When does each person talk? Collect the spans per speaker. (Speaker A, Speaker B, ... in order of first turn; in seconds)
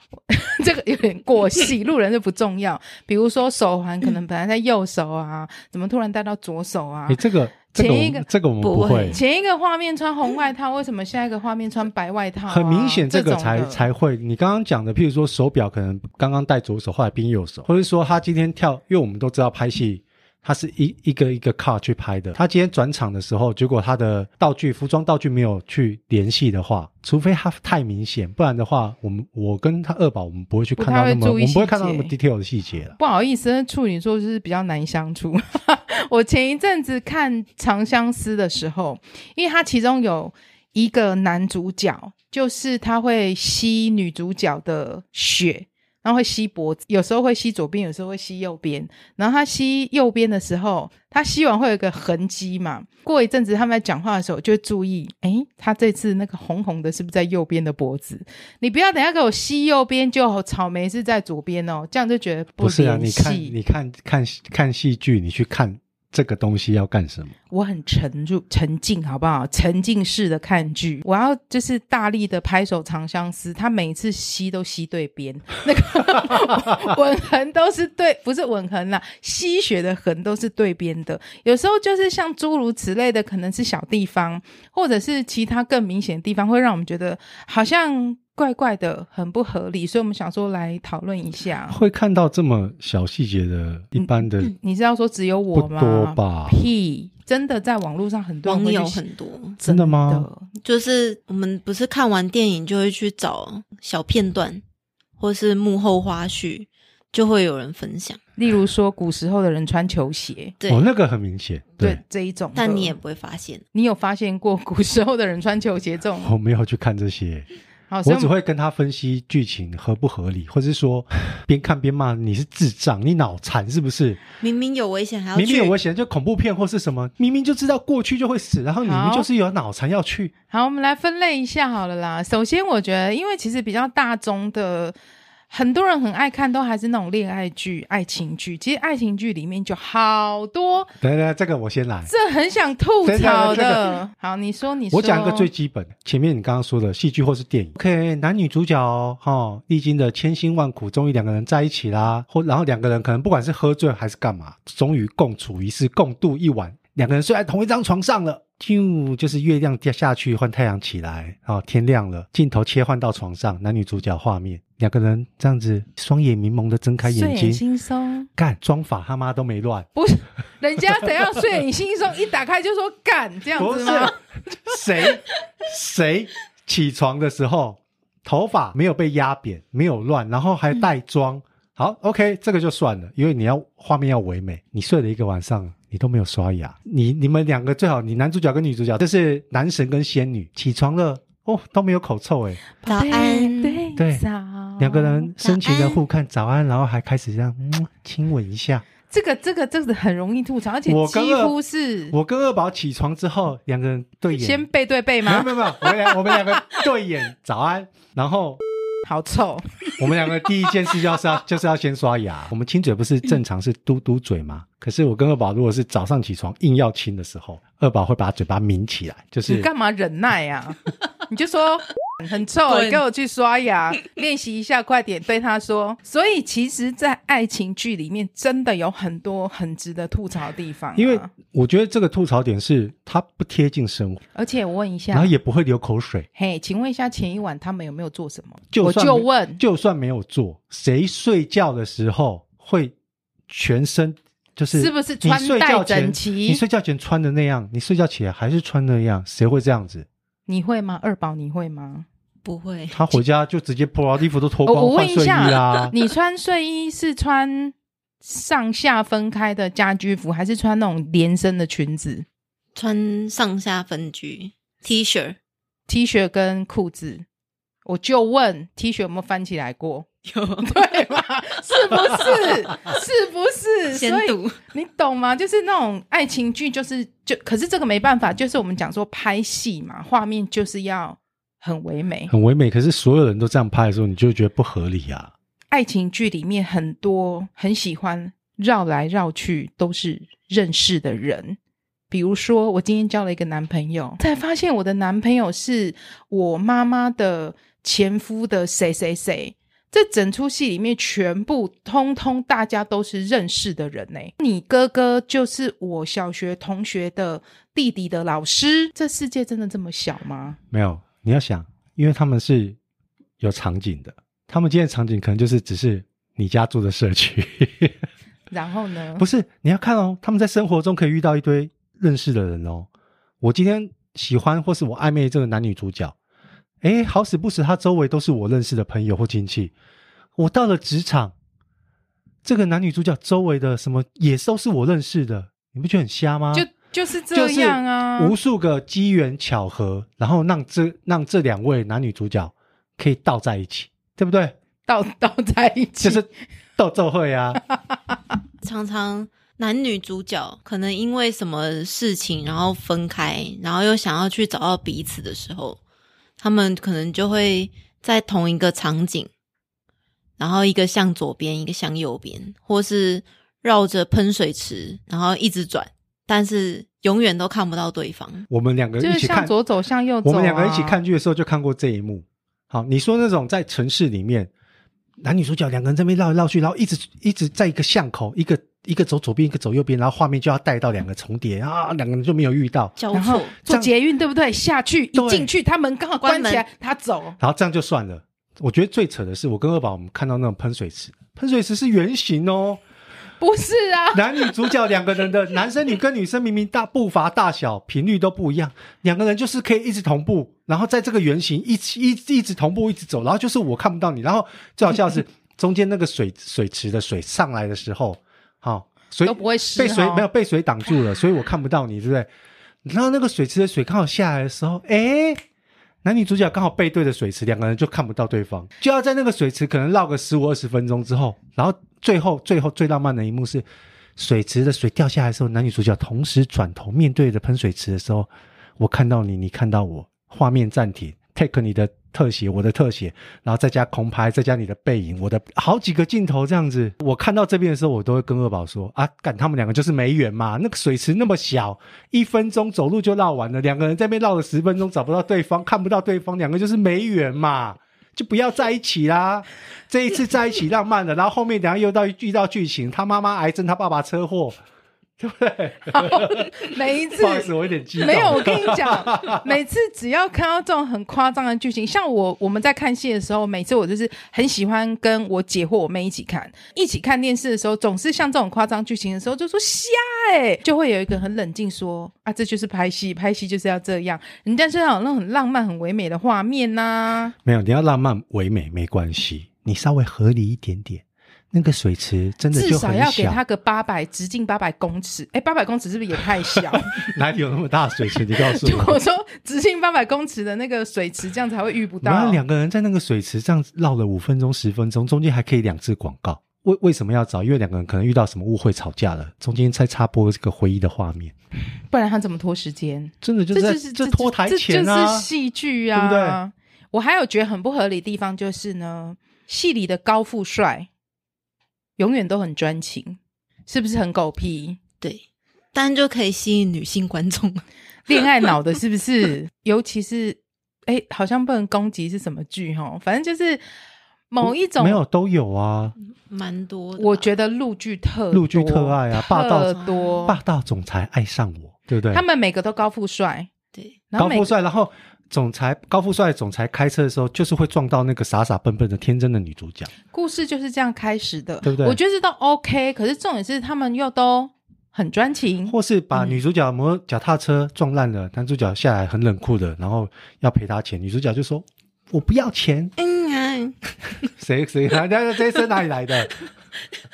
Speaker A: 0.3-8.2, 9.1-13.8, 30.8-32.1, 33.0-63.5, 67.5-91.8, 94.0-99.0, 99.6-100.5, 108.4-110.5, 111.8-112.9, 113.7-116.3, 117.9-118.3, 128.8-129.3, 130.5-134.9, 135.5-140.9, 142.1-145.5, 167.0-168.3, 169.9-174.2, 192.8-195.3, 199.1-202.1, 204.3-206.4, 209.1-209.9, 219.4-231.3, 234.3-235.3, 236.3-239.6, 244.7-246.6, 250.5-252.1, 254.7-262.2, 265.9-267.2, 267.9-270.1, 270.6-282.3, 285.7-291.6, 292.1-310.6, 318.5-319.2, 336.5-338.3, 344.9-346.2, 369.0-371.0, 383.1-387.4, 393.4-394.7, 409.2-410.3, 455.9-477.3, 482.5-487.1, 488.4-492.4, 501.9-510.9, 512.0-514.8, 518.1-523.6, 524.3-525.0, 527.0-530.4, 532.1-533.5, 534.1-534.5, 540.1-545.7
Speaker B: 7.1-9.2, 12.5-33.0, 62.6-67.3, 91.7-94.5, 95.5-96.6, 99.7-100.3, 110.7-112.0, 116.2-117.5, 118.0-124.2, 125.3-130.3, 141.0-142.1, 143.0-143.8, 144.9-167.6, 168.4-169.9, 173.6-192.6, 194.0-194.2, 194.8-198.8, 200.8-201.6, 202.1-204.6, 205.2-208.6, 210.0-219.7, 230.9-234.2, 235.1-236.3, 238.7-242.9, 243.5-250.1, 252.9-255.9, 282.3-285.3, 310.7-312.8, 313.4-318.0, 319.2-322.9, 323.4-326.1, 326.8-329.7, 330.4-331.3, 332.4-336.7, 337.3-344.5, 346.0-347.6, 368.5-369.5, 370.2-374.5, 375.2-382.9, 383.6-383.9, 385.1-385.5, 387.4-392.8, 394.1-412.3, 412.8-415.4, 416.0-423.6, 424.2-454.6, 455.2-459.5, 477.4-483.4, 486.5-489.0, 492.0-501.3, 503.2-505.3, 505.9-506.4, 524.4-525.9, 528.3-532.2, 534.1-539.9, 541.6-542.0, 545.7-552.9, 554.4-556.3
Speaker C: 8.6-9.2, 98.5-99.6, 100.6-104.6, 105.2-108.2, 110.6-110.9, 112.5-113.6, 124.4-125.7, 192.8-193.8, 195.4-196.0, 222.7-223.0, 252.4-253.2, 262.7-265.4, 270.2-271.0, 272.0-272.3, 273.9-274.6, 348.6-355.8, 356.4-359.3, 360.4-368.5, 383.0-383.5, 386.2-386.6, 515.7-517.6, 518.2-518.5, 526.0-527.3, 529.8-530.0, 553.0-554.0